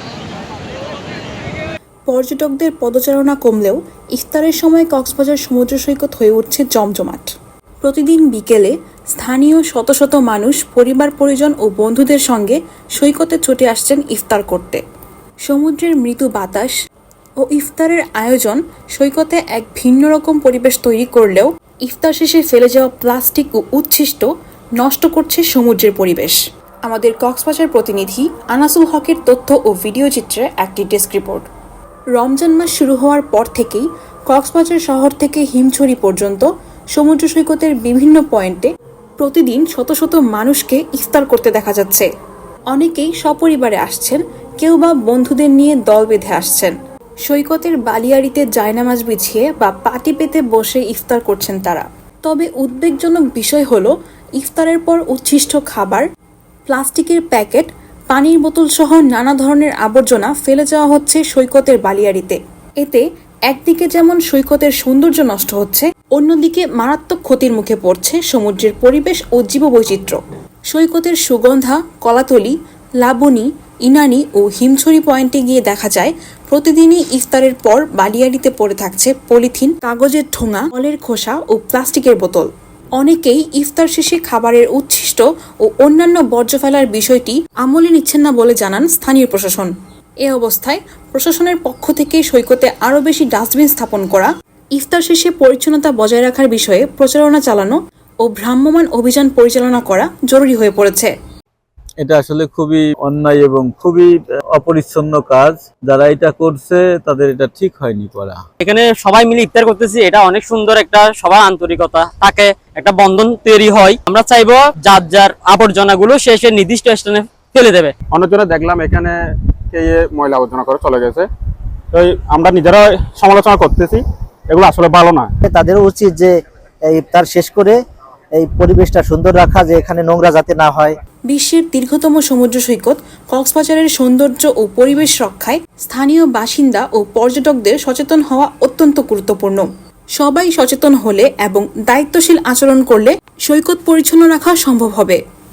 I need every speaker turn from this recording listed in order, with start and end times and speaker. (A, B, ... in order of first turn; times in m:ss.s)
0:02.1-0:07.3 A
0:07.8-0:14.8 A
0:15.4-0:16.7 A
0:17.4-0:31.4 A
0:32.1-0:42.1 A
0:42.7-0:46.7 A
0:47.2-0:56.0 A
0:56.7-1:29.7 A
1:30.2-1:41.1 A
1:42.0-1:48.4 B
1:48.6-1:57.9 C
1:58.1-1:59.2 D
1:59.7-2:01.3 D
2:01.9-2:05.3 D
2:05.4-2:06.3 E
2:06.9-2:07.8 E
2:08.3-2:10.9 E
2:11.3-2:19.6 A
2:20.2-2:25.2 A